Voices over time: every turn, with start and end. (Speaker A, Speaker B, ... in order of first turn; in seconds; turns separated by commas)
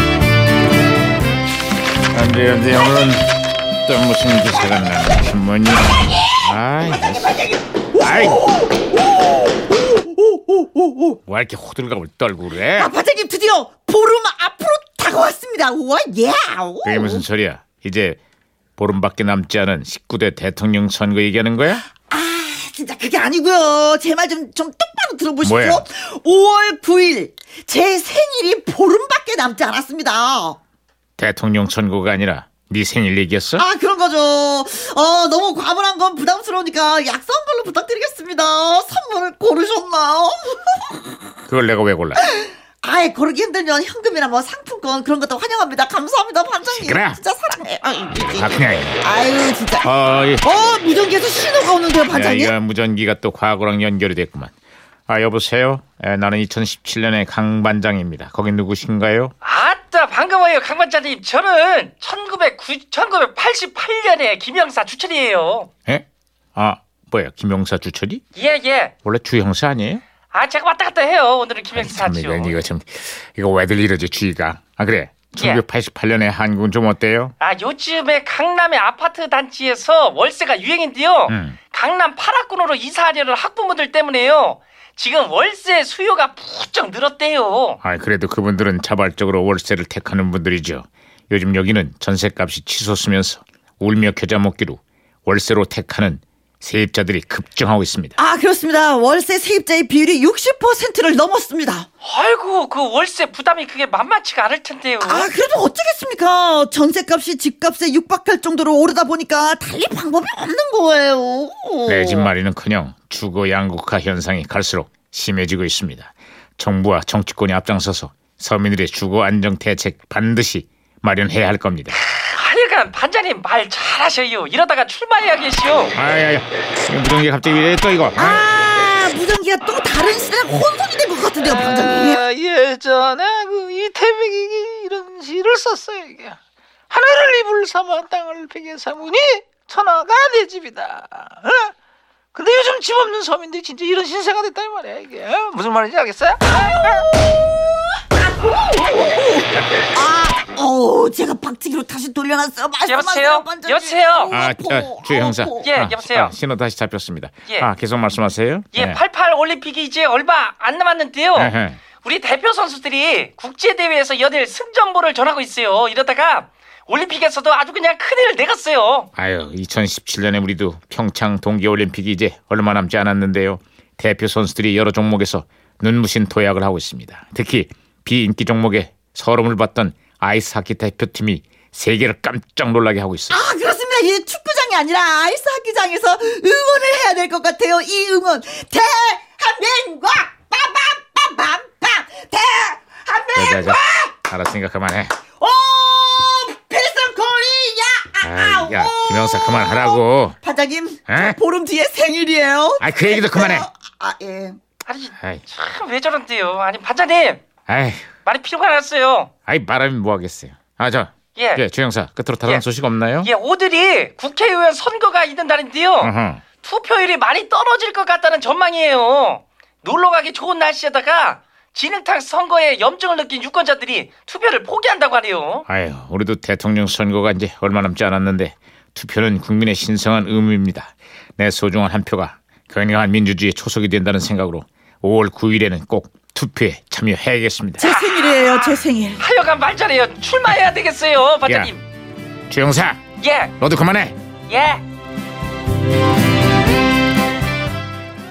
Speaker A: 2.1-3.3, Speaker A: 3.8-7.4, Speaker B: 6.9-11.2, Speaker A: 8.0-8.4, Speaker A: 11.3-12.9, Speaker B: 12.8-17.2, Speaker A: 16.8-18.2, Speaker A: 18.8-21.8, Speaker B: 22.0-30.6, Speaker A: 25.4-25.9, Speaker A: 31.2-33.7, Speaker B: 33.6-41.2, Speaker A: 41.5-42.2, Speaker B: 42.2-49.9, Speaker A: 46.7-47.2, Speaker A: 48.1-49.0, Speaker A: 49.8-50.5, Speaker B: 50.4-52.5, Speaker A: 52.1-54.5, Speaker A: 55.1-59.3, Speaker C: 59.4-65.7, Speaker A: 65.9-68.2, Speaker C: 68.3-68.9, Speaker A: 69.0-70.0, Speaker C: 70.3-72.6, Speaker A: 71.7-77.3, Speaker C: 75.4-75.6, Speaker C: 77.4-87.8, Speaker A: 81.3-81.6, Speaker A: 87.8-98.2, Speaker B: 98.2-101.9, Speaker C: 102.0-105.3, Speaker B: 105.0-112.3, Speaker A: 111.9-122.0, Speaker C: 122.0-126.0, Speaker A: 126.0-128.4, Speaker B: 128.2-132.2, Speaker D: 131.5-136.4, Speaker D: 136.9-141.7, Speaker D: 142.3-147.0, Speaker B: 148.4-155.7, Speaker C: 152.9-154.3, Speaker A: 154.3-159.0, Speaker C: 155.6-156.3, Speaker C: 158.7-169.1, Speaker A: 161.3-161.8, Speaker A: 169.2-183.4, Speaker B: 183.3-194.1, Speaker A: 193.4-195.2, Speaker B: 195.4-204.6, Speaker A: 198.2-200.4, Speaker A: 201.1-201.4, Speaker A: 202.8-203.7, Speaker C: 204.9-207.4, Speaker A: 207.7-208.1, Speaker C: 208.2-209.3, Speaker A: 209.5-213.3, Speaker C: 211.3-211.6, Speaker C: 213.2-225.7, Speaker A: 216.0-216.4, Speaker A: 225.7-237.9, Speaker B: 237.8-239.2, Speaker C: 237.9-241.8, Speaker A: 241.5-241.7, Speaker A: 242.5-243.0, Speaker C: 243.2-243.6, Speaker A: 243.6-244.2, Speaker C: 244.5-244.8